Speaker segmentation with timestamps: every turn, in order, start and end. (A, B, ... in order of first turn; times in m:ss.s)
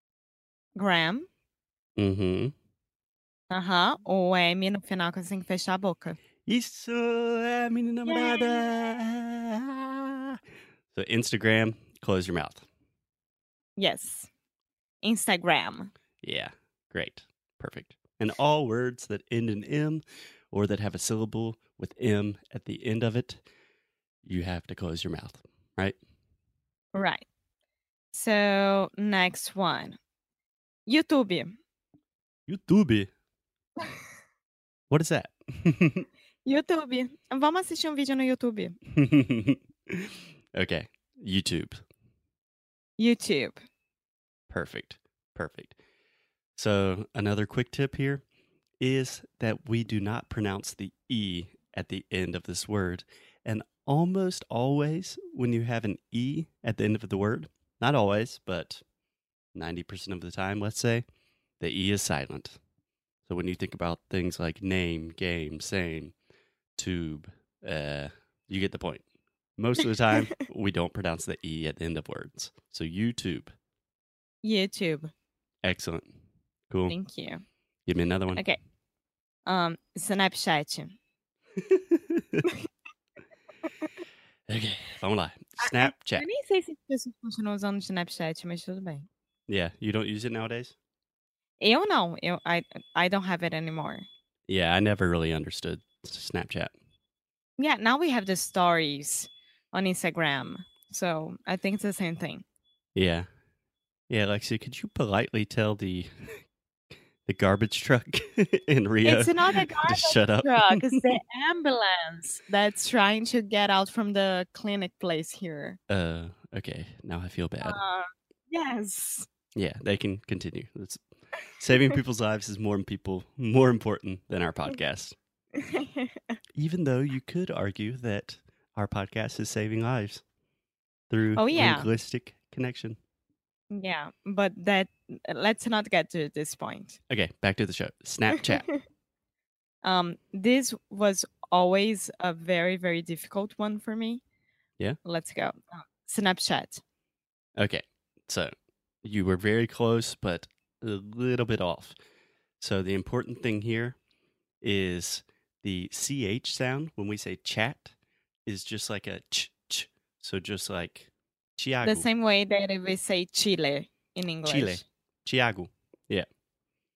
0:00.8-0:01.3 A
0:02.0-0:02.5 B
0:03.5-0:06.2 A
0:06.4-0:10.4 B
0:08.0-0:08.9 A
0:10.9-0:12.6 B
0:13.8-0:14.3 A
0:15.0-0:15.9 A
0:16.2-0:23.4 B
0:24.2-0:26.0 B
0:26.9-0:27.2 A
0:28.1-0:30.0 A
0:30.9-0:31.6 A
0:32.5-0:33.1 B
0:34.9-0:36.1 B
0:36.4-0:38.8 A
0:39.0-0:41.8 B
0:43.0-0:43.6 A
0:44.5-0:45.8 B
0:46.6-0:48.2 B
0:48.8-0:58.8 B
0:59.5-1:01.0 B
1:01.6-1:02.6 B
1:03.2-1:06.1 B
1:06.8-1:09.0 B
1:09.6-1:13.5 B
1:14.4-1:15.1 A
1:15.6-1:16.1 B
1:16.7-1:17.0 B
1:16.9-1:17.4 A
1:17.8-1:18.4 B
1:19.4-1:21.0 A
1:21.6-1:22.4 B
1:24.5-1:26.2 B
1:25.6-1:29.1 A
1:29.5-1:30.8 B
1:31.6-1:34.1 A
1:34.5-1:36.7 B
1:37.6-1:42.4 A
1:42.9-1:43.3 B
1:44.1-1:46.4 B
1:47.2-1:51.0 B
1:49.0-1:55.8 A
1:55.9-1:57.8 B
1:57.6-1:59.3 A
1:59.5-2:01.0 B
2:01.6-2:05.2 B
2:05.6-2:06.2 A
2:06.6-2:10.2 B
2:11.1-2:13.0 B
2:11.4-2:11.9 A
2:13.7-2:17.0 A
2:17.1-2:18.7 B
2:18.4-2:18.8 A
2:19.8-2:24.2 A
2:25.0-2:26.8 A
2:27.6-2:28.5 B
2:29.0-2:31.9 B
2:32.6-2:34.0 B
2:34.6-2:37.9 B
2:38.4-2:42.1 B
2:41.8-2:44.8 A
2:44.4-2:46.2 B